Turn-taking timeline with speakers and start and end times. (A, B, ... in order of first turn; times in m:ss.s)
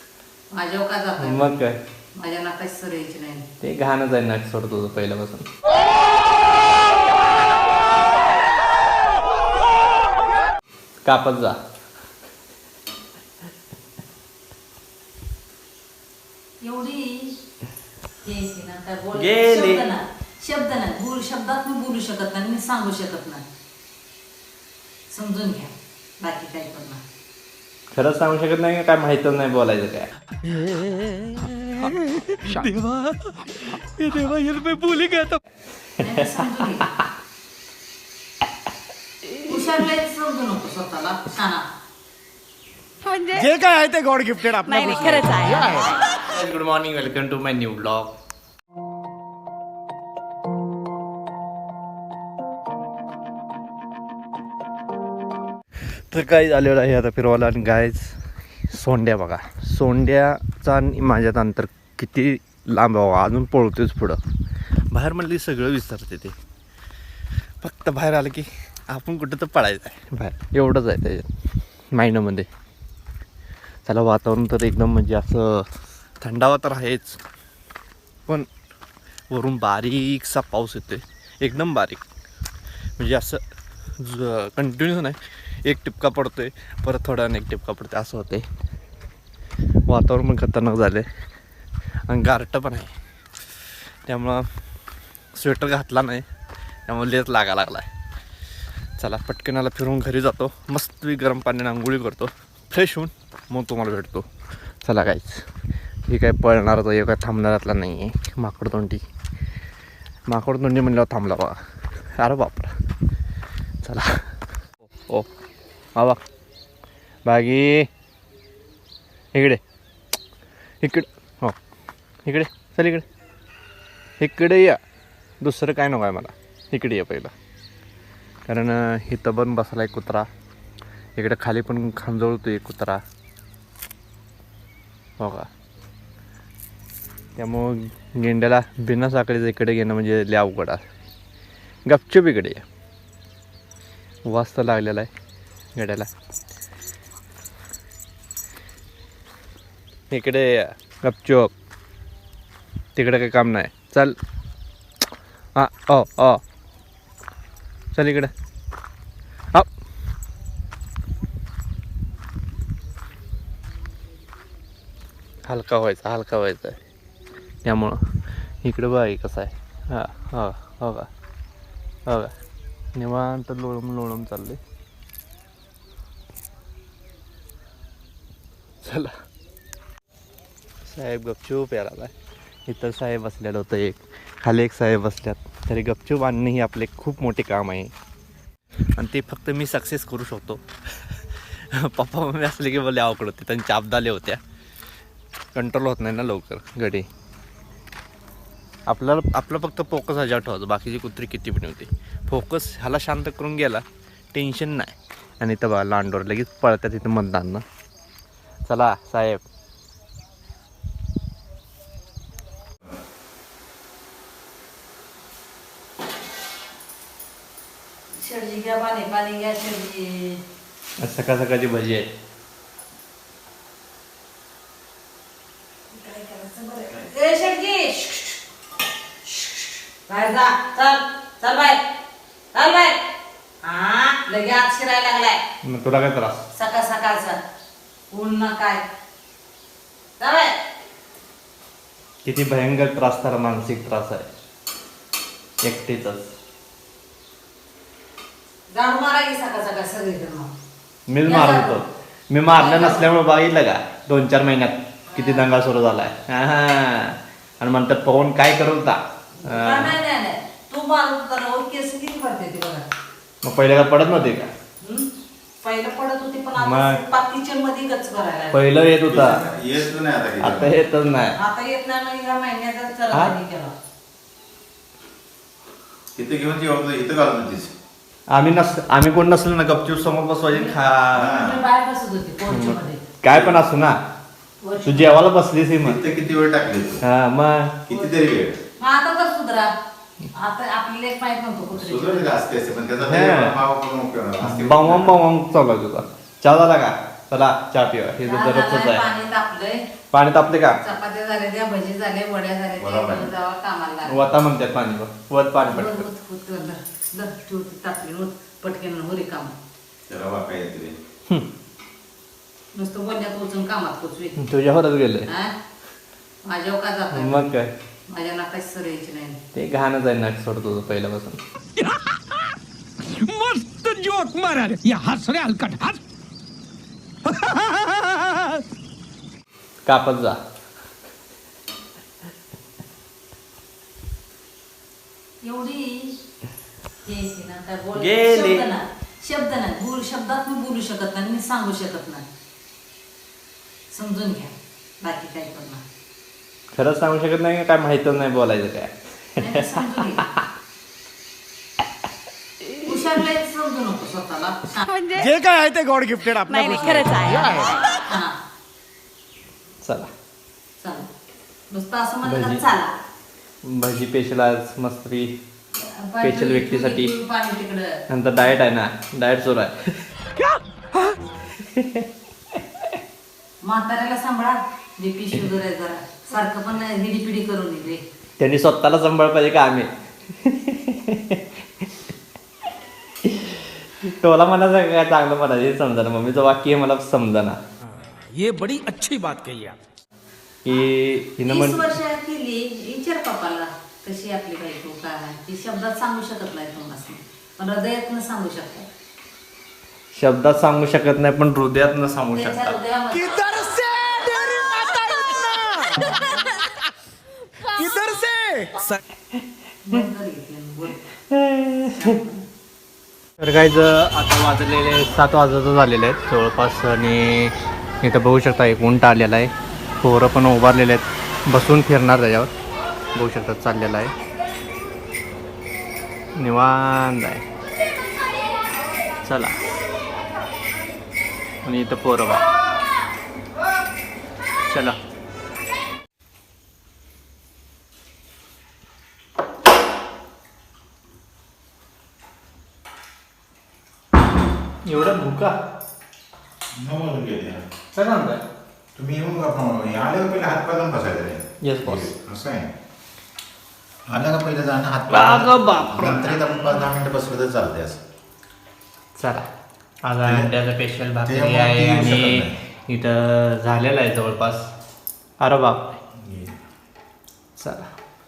0:00.5-0:01.5 A
0:01.2-0:01.8 B
0:02.2-0:03.4 A
0:03.6-0:05.5 B
0:11.0-0:11.6 B
0:16.6-0:17.4 A
0:18.2-0:23.4 A
0:19.2-0:19.9 B
0:25.1-0:27.0 A
0:27.9-0:30.1 B
0:31.8-0:33.5 B
0:34.0-0:35.4 B
0:36.0-0:36.8 B
0:36.0-0:36.9 A
0:39.4-0:41.6 A
0:43.1-0:43.4 C
0:43.3-0:46.0 D
0:44.7-0:45.7 C
0:46.1-0:48.1 B
0:56.1-0:58.2 B
0:58.7-1:04.2 B
1:04.9-1:06.4 B
1:07.6-1:11.3 B
1:11.9-1:12.5 B
1:13.9-1:15.7 B
1:16.2-1:17.2 B
1:19.3-1:22.0 B
1:23.0-1:23.4 B
1:24.0-1:28.5 B
1:29.9-1:31.0 B
1:32.1-1:32.9 B
1:34.1-1:34.4 B
1:35.4-1:36.2 B
1:36.9-1:37.9 B
1:39.0-1:44.2 B
1:44.8-1:45.5 B
1:46.1-1:49.0 B
1:50.3-1:51.6 B
1:52.2-1:52.7 B
1:53.8-1:54.3 B
1:57.3-1:57.9 B
1:59.4-1:59.6 B
2:00.8-2:01.6 B
2:02.3-2:03.0 B
2:04.2-2:04.8 B
2:05.4-2:07.3 B
2:08.5-2:10.3 B
2:11.2-2:13.0 B
2:15.2-2:15.5 B
2:17.4-2:20.8 B
2:21.9-2:22.6 B
2:24.3-2:25.1 B
2:25.8-2:26.1 B
2:30.1-2:31.5 B
2:33.0-2:34.2 B
2:35.6-2:36.4 B
2:37.9-2:38.3 B
2:45.5-2:46.8 B
2:47.6-2:48.0 B
2:48.6-2:51.1 B
2:52.1-2:52.3 B
2:53.0-2:54.6 B
2:58.8-2:59.1 B
3:00.8-3:02.1 B
3:02.7-3:07.9 B
3:09.0-3:10.6 B
3:11.7-3:14.4 B
3:15.6-3:17.1 B
3:18.9-3:23.8 B
3:24.3-3:27.6 B
3:28.7-3:29.4 B
3:38.1-3:40.4 A
3:41.0-3:42.1 B
3:45.9-3:48.4 A
3:49.2-3:51.8 A
3:52.5-3:53.0 A
3:53.6-3:55.4 A
3:55.6-3:56.4 B
3:56.6-3:57.4 A
3:58.1-3:58.8 A
4:00.2-4:00.5 A
4:02.2-4:04.3 B
4:05.6-4:06.3 B
4:08.7-4:10.5 A
4:11.1-4:20.0 B
4:11.2-4:11.8 A
4:12.5-4:13.0 A
4:15.1-4:15.4 A
4:19.4-4:22.9 A
4:23.4-4:24.5 B
4:24.8-4:25.1 A
4:25.6-4:28.6 A
4:26.6-4:27.0 B
4:28.5-4:29.4 B
4:29.1-4:30.8 E
4:30.4-4:31.3 B
4:31.4-4:33.7 A
4:36.2-4:37.7 E
4:38.3-4:41.3 B
4:40.5-4:43.0 A
4:41.1-4:41.6 E
4:42.5-4:44.0 B
4:43.3-4:43.6 E
4:44.6-4:45.2 A
4:44.8-4:46.0 B
4:45.8-4:47.0 E
4:47.0-4:47.8 B
4:47.9-4:48.6 E
4:48.8-4:49.7 A
4:50.3-4:52.4 A
4:51.8-4:55.2 E
4:53.0-4:53.6 B
4:54.4-4:59.0 B
4:58.2-4:59.8 A
5:00.1-5:00.8 B
5:00.8-5:04.2 A
5:02.8-5:03.3 E
5:04.1-5:06.1 B
5:05.6-5:09.5 A
5:10.1-5:11.0 E
5:12.8-5:14.4 A
5:14.4-5:15.3 B
5:15.3-5:15.5 A
5:16.4-5:17.5 A
5:17.1-5:17.7 B
5:18.1-5:19.4 A
5:19.6-5:21.4 B
5:21.8-5:26.0 D
5:27.3-5:28.6 D
5:29.9-5:30.4 B
5:35.4-5:36.2 A
5:37.0-5:42.2 A
5:38.0-5:38.7 B
5:43.9-5:45.8 A
5:46.7-5:48.9 B
5:49.4-5:50.3 A
5:49.5-5:50.4 B
5:52.7-5:53.2 B
5:52.8-5:54.9 A
5:54.9-5:55.2 C
5:55.2-5:57.9 D
5:56.5-5:57.5 C
5:57.9-5:58.3 A
5:59.8-6:00.1 B
6:00.8-6:01.1 A
6:01.7-6:02.9 A
6:02.2-6:02.6 B
6:03.6-6:05.3 B
6:05.8-6:08.0 A
6:06.2-6:07.1 B
6:08.1-6:10.1 B
6:11.8-6:12.0 B
6:13.6-6:18.0 A
6:18.4-6:19.9 B
6:20.4-6:21.4 B
6:23.2-6:27.6 B
6:28.3-6:29.8 D
6:30.6-6:31.9 B
6:31.4-6:38.9 A
6:40.2-6:42.8 B
6:42.3-6:43.3 A
6:43.1-6:46.8 D
6:47.6-6:49.0 D
6:49.8-6:51.0 A
6:51.3-6:52.2 B
6:51.9-6:52.5 A
6:53.4-7:02.5 B
7:03.2-7:04.1 B
7:06.4-7:07.4 B
7:09.2-7:09.6 B
7:11.6-7:12.5 B
7:14.7-7:15.0 B
7:24.9-7:25.5 B
7:26.7-7:27.6 E
7:28.0-7:28.4 B
7:29.0-7:32.7 E
7:31.6-7:32.1 B
7:34.1-7:38.0 E
7:35.1-7:36.7 B
7:39.2-7:39.5 B
7:40.1-7:44.6 B
7:40.2-7:40.5 E
7:41.2-7:42.6 E
7:45.4-7:45.8 B
7:46.2-7:46.6 E
7:47.6-7:47.9 B